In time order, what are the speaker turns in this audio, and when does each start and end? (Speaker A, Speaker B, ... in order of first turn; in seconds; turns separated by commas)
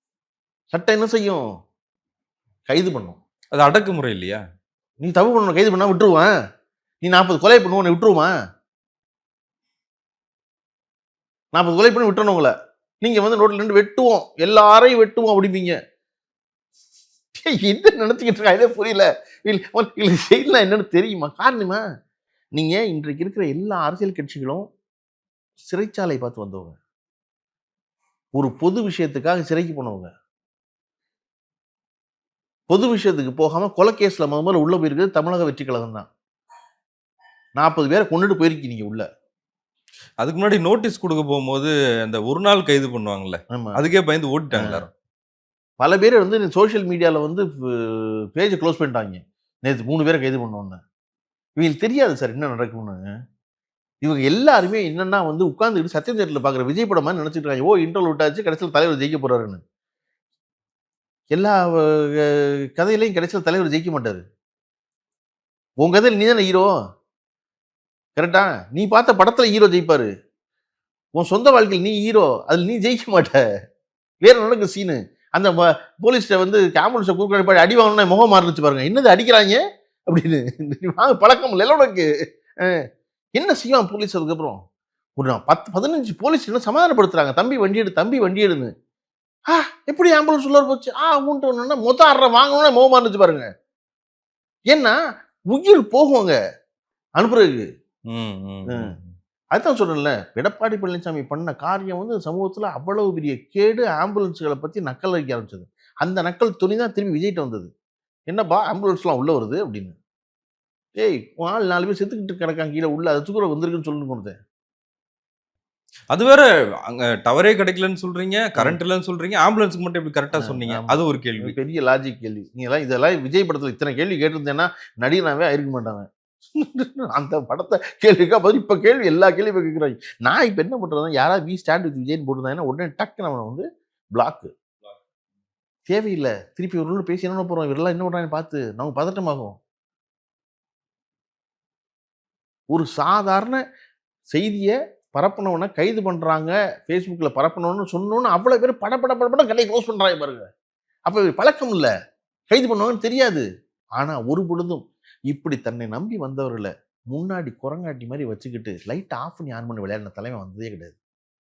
Speaker A: 0.7-1.4, Speaker A: 2.7-3.2, Speaker B: 3.5-4.4, Speaker A: 5.0-6.3, Speaker A: 7.0-8.3, Speaker A: 11.5-15.8, Speaker A: 17.3-21.8, Speaker A: 22.5-24.6, Speaker A: 25.7-26.8, Speaker A: 28.4-30.1, Speaker A: 32.7-36.1, Speaker A: 37.6-39.0, Speaker B: 40.2-44.9, Speaker A: 43.5-43.8, Speaker A: 44.6-44.9, Speaker A: 45.8-50.8, Speaker A: 51.6-53.0, Speaker A: 54.0-59.6, Speaker A: 61.3-64.2, Speaker A: 65.8-66.7, Speaker A: 68.2-70.1, Speaker A: 71.2-73.4, Speaker A: 74.2-82.0, Speaker A: 83.4-84.6, Speaker A: 85.2-88.7, Speaker A: 89.5-93.5, Speaker A: 94.7-94.9, Speaker A: 95.5-96.3, Speaker A: 97.2-97.6, Speaker B: 98.1-99.1, Speaker A: 99.5-107.7, Speaker A: 108.3-109.9, Speaker A: 111.0-114.3, Speaker B: 116.1-121.5, Speaker A: 120.4-133.6, Speaker A: 134.2-134.5, Speaker A: 135.9-139.6, Speaker A: 142.7-143.6, Speaker A: 144.3-150.5, Speaker A: 151.1-151.9, Speaker A: 152.5-153.4, Speaker A: 154.0-160.9